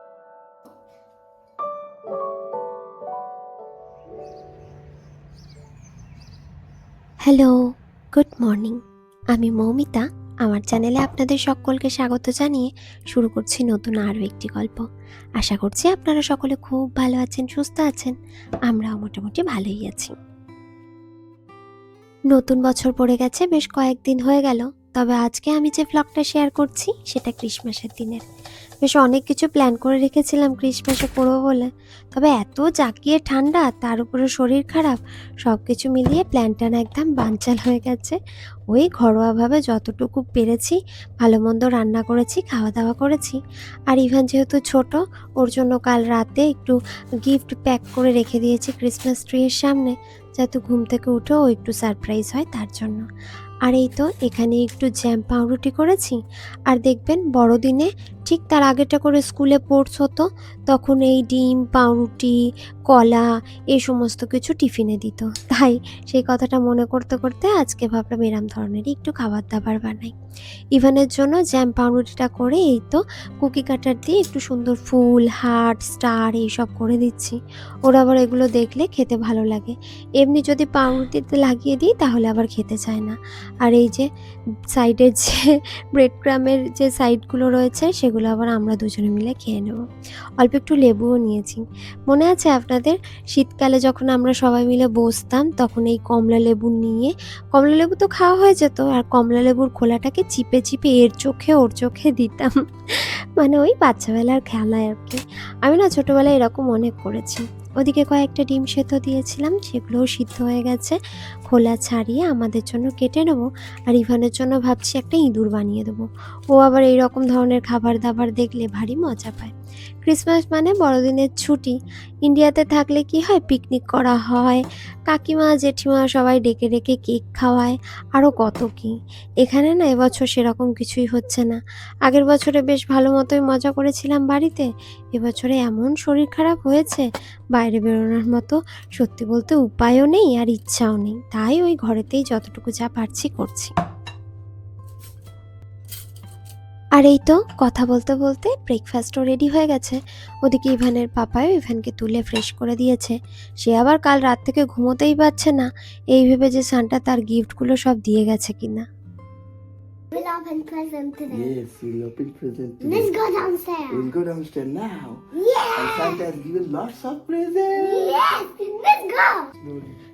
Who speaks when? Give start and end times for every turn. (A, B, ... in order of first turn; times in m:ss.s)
0:07.2-0:07.6 A
0:08.1-0:08.8 A
0:09.3-0:14.9 A
0:15.4-0:18.2 A
0:18.7-0:20.1 A
0:22.3-0:28.2 A
0:28.8-0:38.2 A
0:38.7-0:43.4 A
0:43.9-0:53.0 A
0:53.6-0:56.2 A
0:56.7-1:02.4 A
1:02.9-1:10.1 A
1:10.8-1:24.1 A
1:24.8-1:29.8 A
1:30.4-1:59.5 A
2:00.0-2:23.7 A
2:27.0-2:38.9 A
2:40.1-2:41.6 B
2:41.3-2:43.2 C
2:42.8-2:44.1 B
2:43.9-2:45.2 C
2:45.3-2:46.2 B
2:45.7-2:48.2 C
2:47.7-2:49.5 B
2:49.6-2:50.0 C